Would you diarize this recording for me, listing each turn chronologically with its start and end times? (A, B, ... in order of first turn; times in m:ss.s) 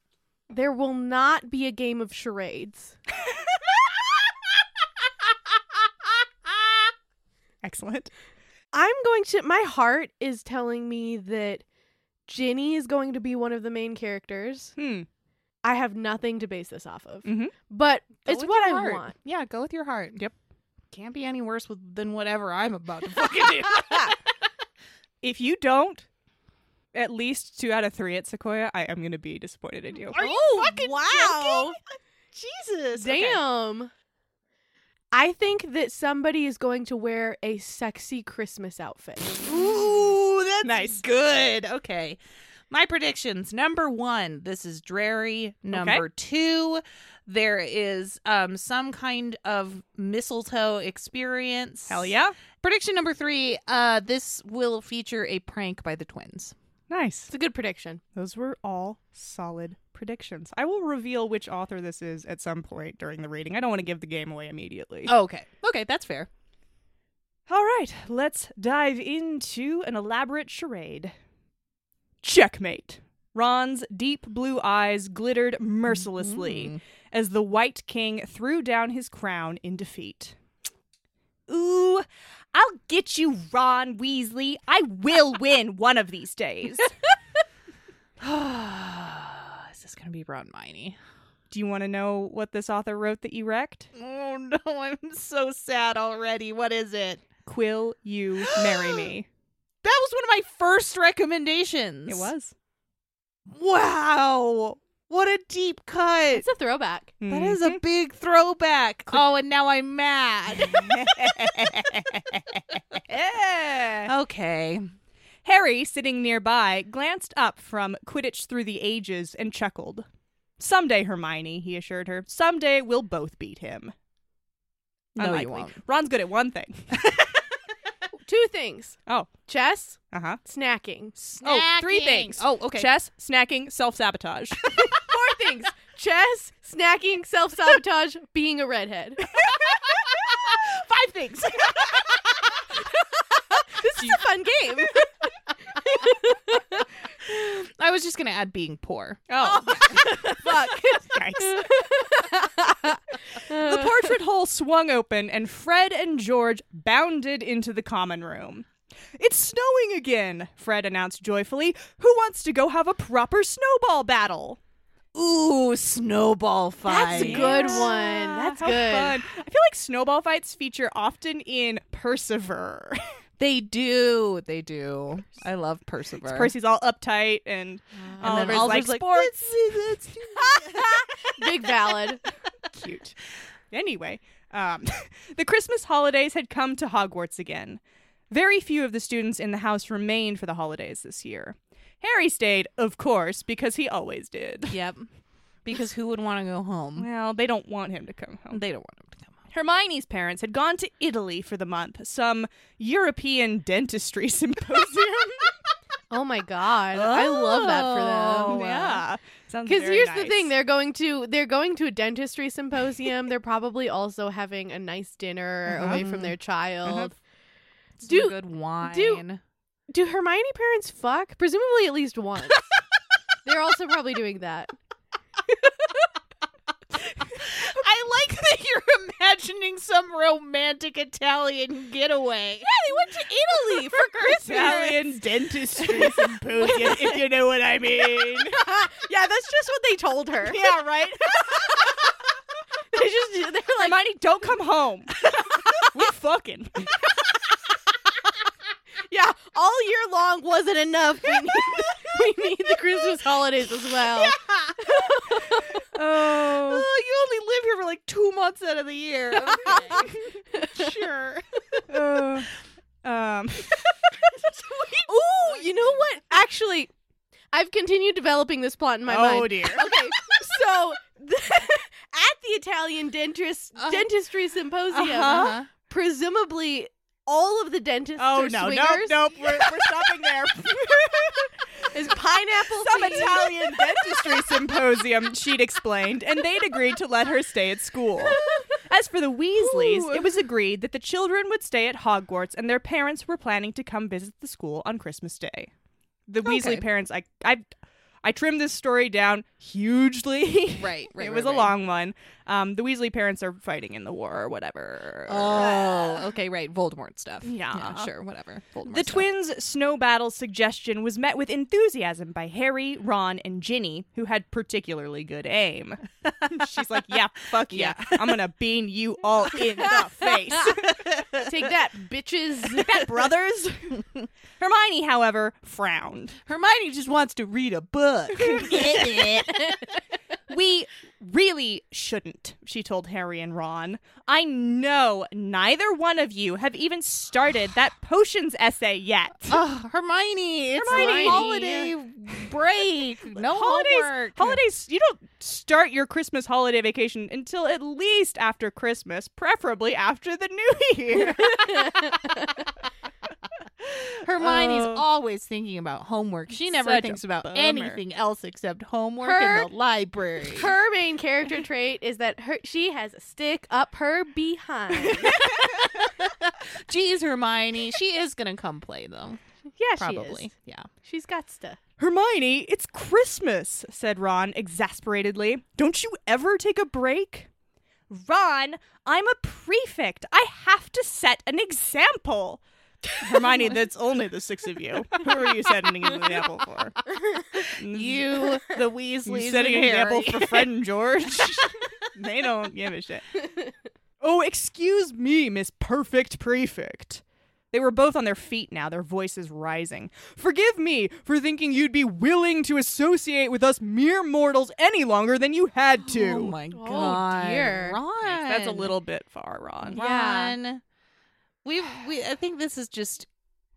0:00.5-0:03.0 A
0:07.6-0:08.1 B
0:08.7-0:11.6 A
0:12.3-0:14.7 A
0:14.8-0:15.1 B
0:15.6-0:19.1 A
0:17.2-0:17.5 B
0:18.2-0:20.2 C
0:20.9-0:24.2 C
0:25.2-0:26.1 B
0:26.9-0:30.2 B
0:30.1-0:31.8 C
0:30.1-0:31.8 A
0:32.3-0:33.4 C
0:32.9-0:33.9 A
0:35.1-0:39.6 A
0:39.4-0:42.2 C
0:40.6-0:41.0 B
0:42.7-0:56.5 C
0:45.7-0:46.0 B
0:51.9-0:52.3 B
0:56.9-0:57.3 B
0:57.3-0:58.0 A
0:58.1-1:05.1 B
1:05.0-1:06.3 C
1:07.5-1:11.1 B
1:12.2-1:20.4 B
1:15.9-1:16.8 C
1:21.5-1:26.9 B
1:28.2-1:31.0 C
1:31.5-1:33.9 B
1:33.9-1:37.2 C
1:37.4-1:39.3 B
1:38.4-1:39.1 C
1:39.8-1:42.3 C
1:42.1-1:42.5 B
1:43.5-1:46.4 C
1:46.3-1:47.1 A
1:47.2-1:47.8 B
1:47.3-1:52.8 C
1:50.6-1:52.0 B
1:52.9-1:54.1 B
1:54.0-1:54.8 C
1:55.4-2:00.0 B
2:00.6-2:03.9 B
2:05.2-2:07.0 B
2:05.2-2:05.8 C
2:08.2-2:11.1 A
2:09.0-2:09.3 B
2:10.1-2:10.4 B
2:11.2-2:14.6 B
2:11.4-2:12.9 C
2:14.9-2:19.4 A
2:20.4-2:22.5 C
2:23.5-2:25.1 A
2:25.7-2:26.9 A
2:27.2-2:29.7 C
2:29.3-2:30.0 B
2:29.4-2:34.1 A
2:31.1-2:31.8 B
2:33.5-2:44.6 B
2:45.1-2:48.0 C
2:46.9-2:49.2 A
2:46.9-2:53.0 B
2:53.4-2:56.5 C
2:56.2-3:01.3 B
2:58.2-3:01.3 C
2:58.2-2:58.8 A
3:01.2-3:02.2 A
3:02.7-3:03.1 B
3:03.7-3:14.8 B
3:14.7-3:15.1 C
3:15.6-3:17.1 C
3:17.0-3:18.6 B
3:18.5-3:19.4 C
3:19.5-3:25.5 B
3:26.1-3:28.6 A
3:26.9-3:29.0 C
3:28.5-3:30.5 B
3:29.6-3:37.2 A
3:35.7-3:36.4 C
3:36.8-3:37.1 B
3:38.0-3:39.4 C
3:38.0-3:39.2 A
3:39.9-3:42.7 A
3:43.4-3:44.7 A
3:45.5-3:46.1 A
3:47.2-3:52.7 C
3:52.6-3:55.1 A
3:54.4-3:58.6 B
3:55.8-3:57.2 A
3:58.1-4:00.6 A
4:00.4-4:01.7 B
4:01.4-4:01.9 A
4:02.9-4:04.0 A
4:03.8-4:05.1 B
4:05.8-4:07.0 B
4:09.0-4:15.8 A
4:14.2-4:14.8 C
4:15.9-4:16.9 B
4:16.3-4:21.8 C
4:19.4-4:21.0 A
4:21.9-4:22.5 B
4:23.0-4:25.1 B
4:25.0-4:26.9 A
4:27.5-4:40.1 A
4:29.1-4:30.0 B
4:33.8-4:34.1 C
4:34.9-4:35.5 B
4:35.1-4:35.7 C
4:38.2-4:42.0 B
4:41.9-4:44.4 A
4:42.5-4:55.7 B
4:56.3-4:57.6 B
4:56.4-4:56.8 C
4:58.2-5:06.2 B
5:00.8-5:01.7 C
5:05.3-5:09.3 C
5:07.4-5:08.1 B
5:08.8-5:21.0 B
5:17.7-5:18.4 C
5:19.5-5:21.4 C
5:21.4-5:23.0 A
5:22.7-5:24.0 B
5:24.6-5:26.4 B
5:26.4-5:29.8 C
5:28.4-5:29.7 B
5:30.5-5:39.6 B
5:39.5-5:44.6 C
5:40.8-5:42.4 B
5:40.9-5:41.8 A
5:43.3-5:52.2 B
5:51.4-5:52.6 A
5:54.2-6:00.7 C
5:54.4-5:55.0 B
5:56.6-5:58.0 B
5:59.2-5:59.7 A
6:00.4-6:05.8 A
6:05.0-6:05.8 B
6:05.8-6:09.4 C
6:09.8-6:10.5 A
6:10.0-6:10.9 C
6:11.0-6:11.8 A
6:12.0-6:17.5 B
6:18.1-6:22.6 B
6:23.1-6:27.0 B
6:27.8-6:28.6 B
6:27.8-6:30.8 C
6:29.2-6:33.3 B
6:31.3-6:31.6 C
6:34.2-6:46.6 B
6:46.0-6:48.9 C
6:46.7-6:48.0 A
6:48.2-6:50.0 B
6:49.9-6:50.8 C
6:49.9-6:50.6 A
6:51.6-6:53.3 C